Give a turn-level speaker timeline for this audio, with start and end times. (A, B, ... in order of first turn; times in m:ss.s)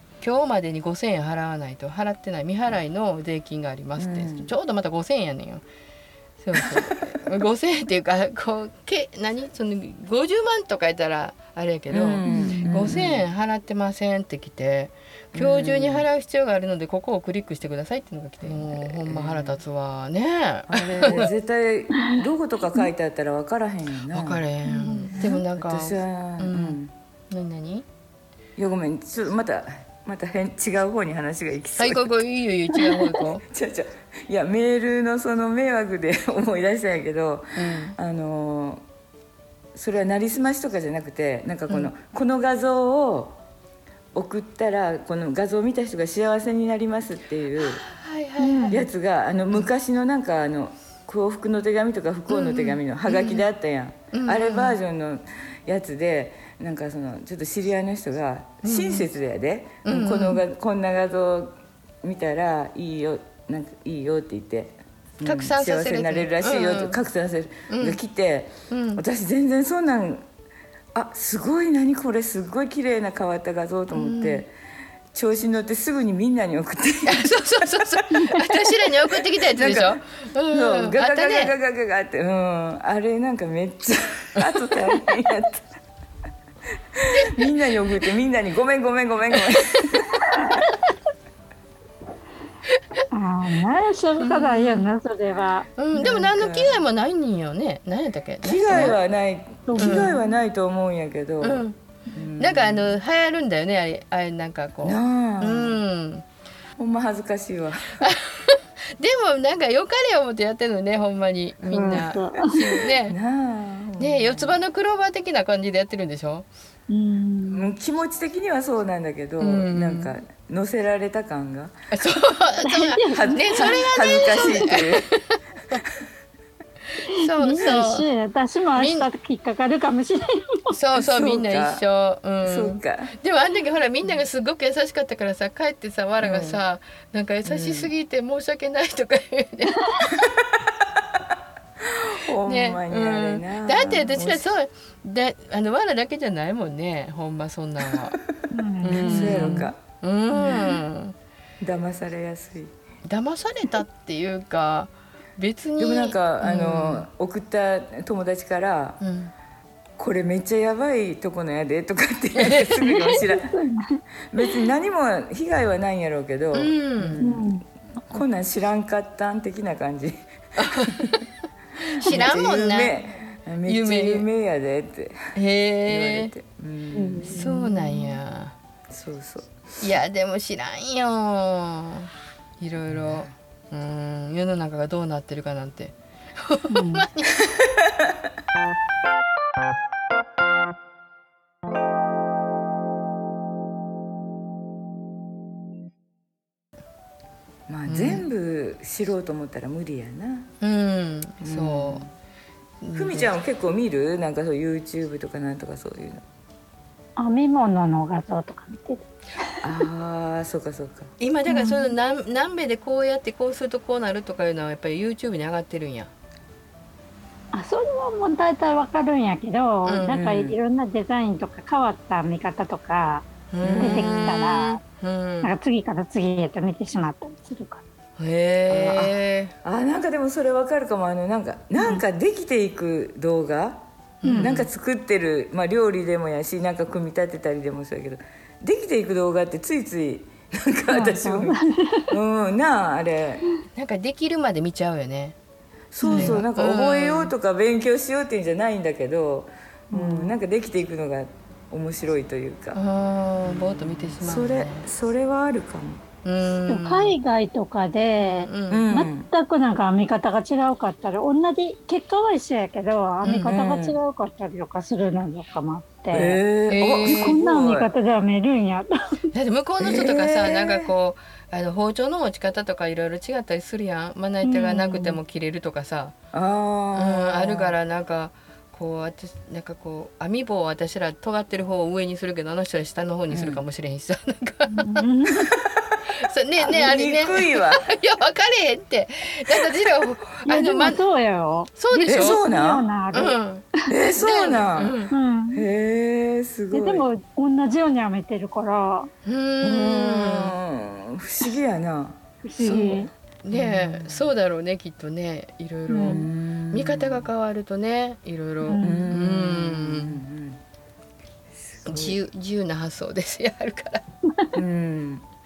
0:00.2-0:05.6 A
0:04.0-0:04.5 B
0:06.4-0:21.3 A
0:11.9-0:13.2 B
0:12.2-0:12.7 C
0:15.3-0:16.1 B
0:18.4-0:19.6 B
0:20.7-0:26.9 B
0:24.1-0:26.8 A
0:27.3-0:27.8 A
0:28.6-0:32.2 B
0:31.8-0:33.4 A
0:33.2-0:38.8 B
0:37.6-0:38.0 A
0:39.7-0:43.3 B
0:44.1-0:47.8 B
0:47.6-0:48.9 A
0:48.4-0:48.8 C
0:48.7-1:10.2 B
0:52.3-0:53.5 A
0:54.1-0:54.8 A
0:58.6-0:59.1 A
0:59.8-1:00.4 A
1:05.2-1:07.0 A
1:07.7-1:08.0 A
1:08.7-1:09.0 A
1:10.9-1:14.5 B
1:13.9-1:14.4 A
1:15.1-1:25.6 B
1:17.0-1:21.5 A
1:27.0-1:30.2 B
1:33.1-1:35.7 C
1:34.2-1:34.9 A
1:35.8-1:39.0 A
1:35.9-1:36.8 B
1:38.4-1:41.6 B
1:39.7-1:40.3 C
1:39.8-1:40.1 A
1:41.4-1:41.8 A
1:42.1-1:42.9 B
1:42.4-1:46.2 A
1:44.8-1:45.8 B
1:46.8-1:48.0 B
1:48.0-1:53.2 A
1:51.7-1:52.7 C
1:53.0-1:54.6 B
1:54.0-1:56.5 A
1:56.9-1:57.7 C
1:57.5-2:01.7 B
1:59.4-2:00.1 A
2:01.9-2:05.4 A
2:02.6-2:04.4 C
2:03.1-2:05.0 B
2:07.1-2:08.1 A
2:07.1-2:10.8 C
2:08.7-2:09.1 A
2:10.7-2:20.1 A
2:10.9-2:11.8 B
2:12.4-2:13.1 B
2:16.2-2:16.6 B
2:17.4-2:17.9 B
2:21.8-2:24.5 B
2:22.4-2:28.2 A
2:28.5-2:29.7 C
2:28.8-2:31.1 A
2:28.9-2:29.8 B
2:30.3-2:30.8 B
2:31.6-2:32.7 B
2:33.0-2:37.1 A
2:35.8-2:39.0 B
2:39.0-2:39.3 A
2:40.0-2:43.5 B
2:42.4-2:43.1 A
2:43.2-2:44.5 C
2:44.3-2:47.4 B
2:46.5-2:47.2 A
2:47.2-2:47.6 C
2:48.1-2:50.2 B
2:50.6-2:51.2 A
2:50.7-2:51.1 B
2:51.9-2:52.9 A
2:52.0-2:55.2 B
2:53.6-2:54.3 A
2:55.3-2:56.3 A
2:55.8-2:58.1 B
2:56.9-2:57.4 C
2:57.3-2:58.5 A
2:58.9-2:59.5 B
2:59.8-3:07.5 A
3:02.9-3:03.3 B
3:06.7-3:07.1 C
3:17.7-3:20.5 B
3:17.9-3:18.2 A
3:20.6-3:22.0 A
3:21.4-3:22.1 B
3:22.8-3:23.3 A
3:22.9-3:26.2 B
3:27.2-3:29.6 C
3:29.6-3:31.1 B
3:31.2-3:36.1 A
3:31.5-3:31.9 C
3:37.5-3:44.8 C
3:39.8-3:40.1 A
3:40.1-3:40.6 B
3:43.5-3:45.5 A
3:43.6-3:44.2 B
3:45.4-3:47.8 C
3:48.2-3:49.5 A
3:48.7-4:01.6 B
3:51.8-3:52.0 C
3:54.2-3:54.7 A
3:54.2-3:54.6 C
4:00.9-4:02.1 C
4:02.1-4:03.4 B
4:03.7-4:05.4 A
4:05.9-4:12.8 B
4:06.0-4:06.4 C
4:06.0-4:07.3 A
4:09.9-4:10.3 C
4:12.7-4:14.9 A
4:13.4-4:16.0 B
4:16.2-4:17.2 A
4:16.6-4:26.4 C
4:18.2-4:18.9 A
4:18.7-4:19.3 B
4:23.2-4:23.5 A
4:23.3-4:24.0 B
4:26.1-4:27.9 B
4:26.7-4:27.4 A
4:27.0-4:28.9 C
4:29.3-4:36.1 A
4:29.8-4:30.9 B
4:34.4-4:35.2 C
4:36.3-4:37.8 B
4:36.9-4:45.0 A
4:43.3-4:43.6 B
4:44.7-4:45.6 C
4:46.1-4:51.0 A
4:46.6-4:47.8 B
4:50.4-4:53.4 C
4:51.8-4:52.4 A
4:52.1-4:53.2 B
4:53.1-4:53.6 A
4:53.9-4:55.0 B
4:54.2-4:55.1 A
4:55.1-4:55.6 C
4:55.5-4:57.0 B
4:56.7-4:59.1 C
4:59.2-5:00.6 A
4:59.6-5:04.3 B
5:02.4-5:03.1 C
5:02.6-5:02.9 A
5:03.4-5:10.2 A
5:05.9-5:07.3 B
5:05.9-5:06.2 C
5:08.6-5:09.1 C
5:08.8-5:10.6 B
5:11.5-5:12.2 B
5:11.8-5:14.0 A
5:14.5-5:15.2 B